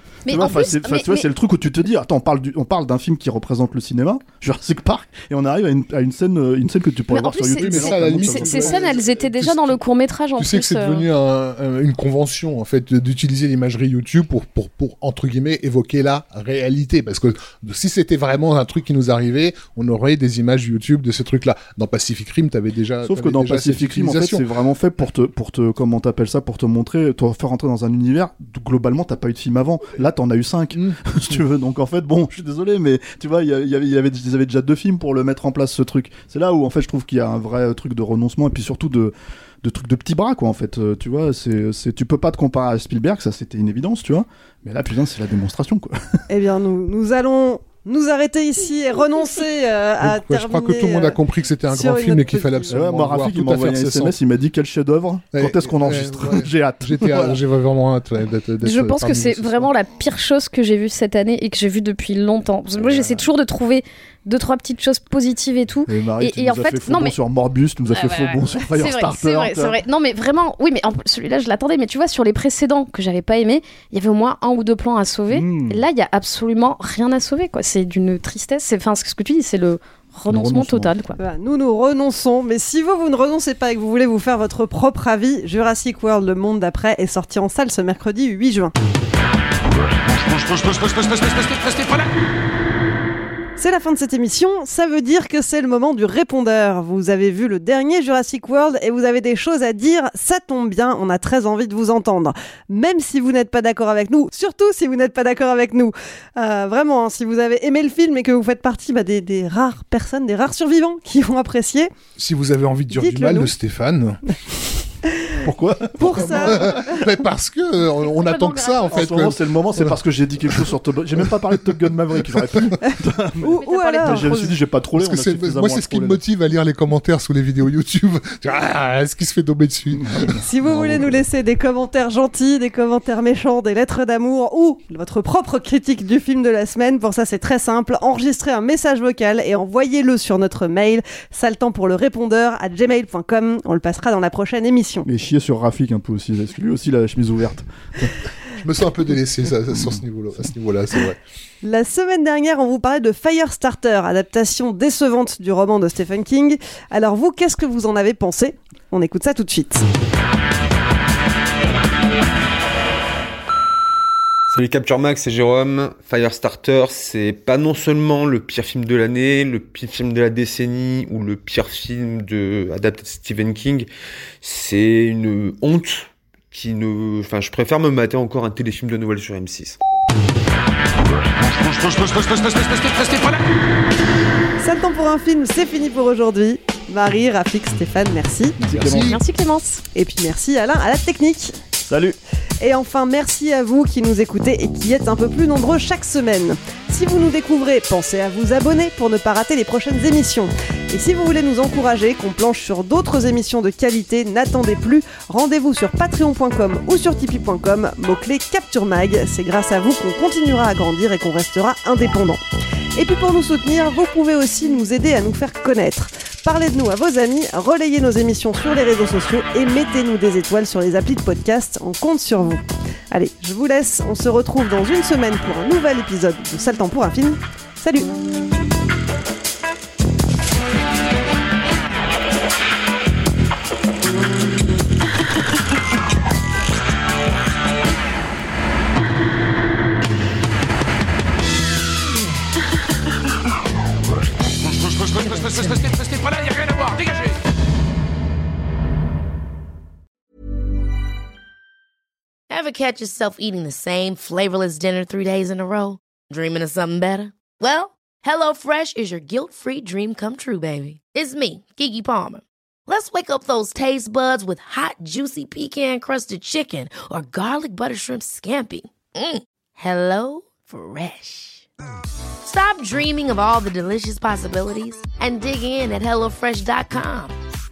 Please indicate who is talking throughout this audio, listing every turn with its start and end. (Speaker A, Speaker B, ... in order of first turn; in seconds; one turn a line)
Speaker A: 0.3-1.3
Speaker B: 0.3-9.0
Speaker A: 7.1-11.1
Speaker C: 7.6-9.8
Speaker C: 10.4-24.4
Speaker B: 23.0-46.2
Speaker C: 30.8-31.4
Speaker D: 46.3-52.8
Speaker C: 50.0-54.1
Speaker B: 52.7-57.4
Speaker C: 55.4-59.7
Speaker A: 58.6-67.2
Speaker B: 62.9-63.2
Speaker B: 65.9-69.8
Speaker A: 67.9-81.2
Speaker B: 75.3-75.9
Speaker B: 80.3-80.9
Speaker D: 81.2-88.7
Speaker E: 89.9-92.1
Speaker D: 93.6-111.9
Speaker C: 112.2-114.2
Speaker D: 112.9-113.5
Speaker D: 115.1-115.4
Speaker B: 115.4-117.0
Speaker D: 116.0-116.8
Speaker C: 116.0-120.0
Speaker A: 118.0-119.3
Speaker B: 118.9-126.2
Speaker D: 122.8-124.3
Speaker A: 123.6-124.5
Speaker C: 125.0-130.4
Speaker B: 129.9-131.2
Speaker D: 130.4-145.1
Speaker B: 145.1-148.1
Speaker C: 148.6-151.2
Speaker B: 149.7-150.0
Speaker D: 151.6-159.8
Speaker E: 164.5-173.9
Speaker E: 174.4-179.8
Speaker E: 181.4-183.5
Speaker D: 184.6-188.6
Speaker B: 188.6-189.2
Speaker C: 188.7-189.2
Speaker A: 188.9-189.8
Speaker D: 189.9-191.6
Speaker B: 191.9-192.2
Speaker D: 192.6-212.4
Speaker D: 213.0-228.1
Speaker E: 244.7-247.3
Speaker F: 252.5-271.6
Speaker F: 272.4-277.3